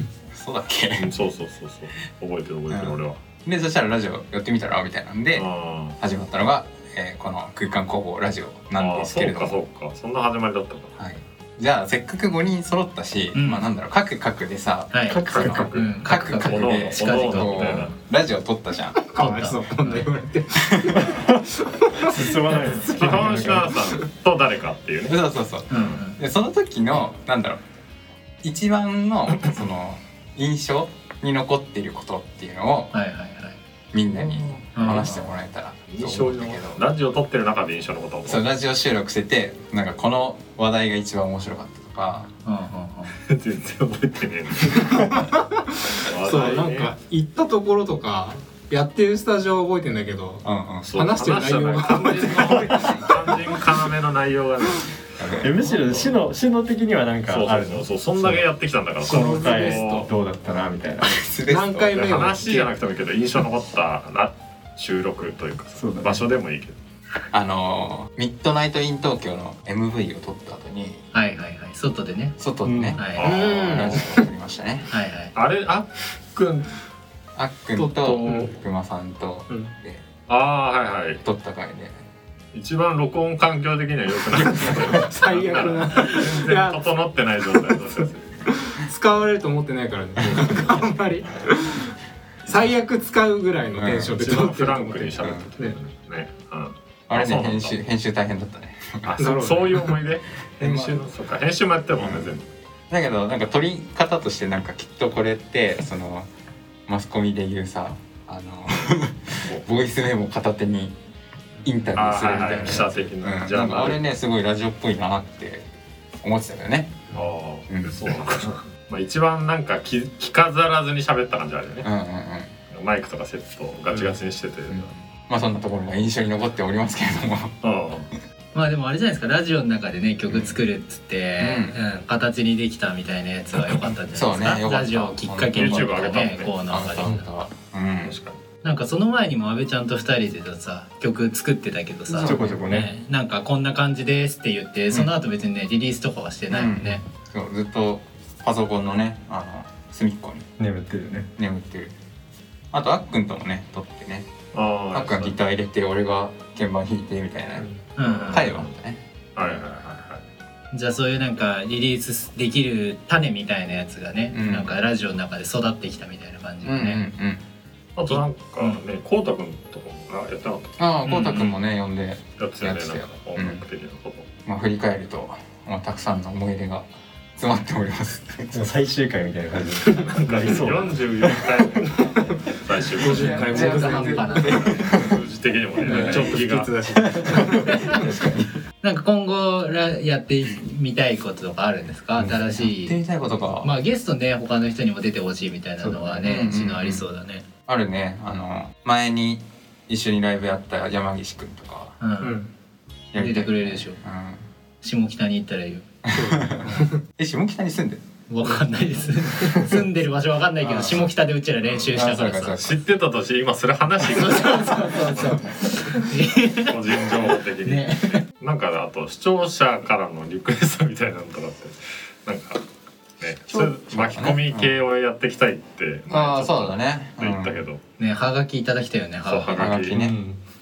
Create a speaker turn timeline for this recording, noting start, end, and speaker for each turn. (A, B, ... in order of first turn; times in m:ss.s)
0:00.3-0:01.1 A
0:01.0-0:03.2 B
0:02.7-0:05.4 A
0:05.3-0:06.0 B
0:06.0-0:09.6 A
0:08.8-0:10.9 B
0:11.0-0:19.6 A
0:13.3-0:13.6 C
0:14.9-0:17.9 C
0:15.1-0:15.9 D
0:15.3-0:17.9 B
0:19.1-0:22.2 E
0:20.5-0:21.1 A
0:21.1-0:21.4 D
0:22.1-0:23.7 D
0:22.8-0:26.0 B
0:25.0-0:27.6 A
0:25.7-0:26.2 C
0:28.4-0:32.9 A
0:32.9-0:33.6 C
0:33.9-0:36.8 A
0:34.3-0:35.1 B
0:34.7-0:35.2 C
0:35.9-0:38.4 B
0:38.2-0:42.3 A
0:42.4-0:43.1 C
0:43.2-0:45.1 B
0:44.7-0:45.6 E
0:46.0-0:46.9 B
0:46.2-0:50.4 E
0:50.4-0:50.9 A
0:50.8-0:55.0 B
0:51.0-0:53.5 E
0:55.2-0:55.6 A
0:55.4-0:58.4 D
0:55.6-0:56.1 B
0:57.3-1:00.1 B
0:59.0-0:59.8 E
0:59.1-1:01.3 D
0:59.6-1:00.1 A
1:01.0-1:02.2 A
1:01.5-1:02.7 E
1:01.9-1:06.8 B
1:05.8-1:06.2 D
1:07.3-1:11.0 A
1:11.1-1:12.4 C
1:12.4-1:14.9 A
1:12.6-1:13.1 D
1:13.0-1:13.2 C
1:13.1-1:14.2 B
1:13.2-1:14.2 E
1:14.9-1:15.3 C
1:15.3-1:16.7 B
1:17.4-1:20.0 A
1:17.8-1:18.5 E
1:17.9-1:18.5 B
1:20.3-1:21.2 B
1:21.2-1:21.9 A
1:22.5-1:28.5 B
1:24.4-1:24.8 A
1:24.6-1:26.8 E
1:28.5-1:31.9 E
1:30.2-1:30.7 A
1:32.4-1:35.8 E
1:33.8-1:34.2 A
1:34.0-1:37.8 B
1:35.2-1:35.5 A
1:37.1-1:39.1 A
1:39.0-1:42.4 B
1:39.2-1:39.8 E
1:40.6-1:41.0 A
1:42.0-1:42.3 A
1:42.9-1:46.3 A
1:46.9-1:51.0 A
1:51.6-1:55.6 A
1:51.9-1:54.0 B
1:56.2-1:57.0 A
1:57.1-2:01.9 B
1:57.7-1:58.5 A
2:01.8-2:02.5 A
2:02.7-2:04.9 B
2:04.7-2:07.6 A
2:07.6-2:08.1 B
2:08.5-2:17.2 C
2:10.3-2:10.6 A
2:11.4-2:11.8 A
2:14.1-2:18.1 A
2:15.5-2:16.5 B
2:18.0-2:18.4 B
2:18.6-2:27.0 C
2:22.1-2:22.9 D
2:22.2-2:22.6 A
2:26.5-2:30.5 A
2:30.6-2:31.3 D
2:31.3-2:31.9 A
2:32.7-2:34.3 A
2:34.5-2:35.4 B
2:34.9-2:37.7 A
2:38.0-2:38.5 C
2:38.0-2:38.7 B
2:38.3-2:39.6 A
2:39.4-2:40.2 B
2:40.7-2:47.0 C
2:44.3-2:44.8 A
2:46.6-2:47.4 A
2:48.0-2:50.8 B
2:50.8-2:53.6 A
2:51.0-2:51.5 C
2:52.4-2:54.3 B
2:54.4-2:58.7 A
2:58.5-3:01.5 D
3:00.0-3:03.8 B
3:02.0-3:02.3 E
3:03.0-3:05.1 E
3:03.0-3:05.2 A
3:03.2-3:04.9 C
3:04.4-3:06.7 B
3:05.8-3:08.0 E
3:05.9-3:08.5 A
3:08.8-3:13.0 C
3:12.2-3:13.7 A
3:13.6-3:17.4 C
3:16.1-3:17.0 A
3:17.6-3:22.0 A
3:22.0-3:22.4 C
3:22.2-3:22.5 E
3:23.1-3:24.4 A
3:23.2-3:24.0 C
3:24.8-3:25.9 C
3:26.0-3:28.0 A
3:26.1-3:27.0 E
3:28.3-3:32.6 C
3:30.6-3:31.1 A
3:31.9-3:32.8 A
3:32.6-3:35.5 B
3:34.0-3:38.2 C
3:36.5-3:42.6 B
3:43.2-3:47.8 B
3:43.5-3:44.8 A
3:46.1-3:47.6 A
3:48.0-3:49.8 C
3:49.2-3:50.1 B
3:49.5-3:50.2 A
3:49.9-3:50.4 D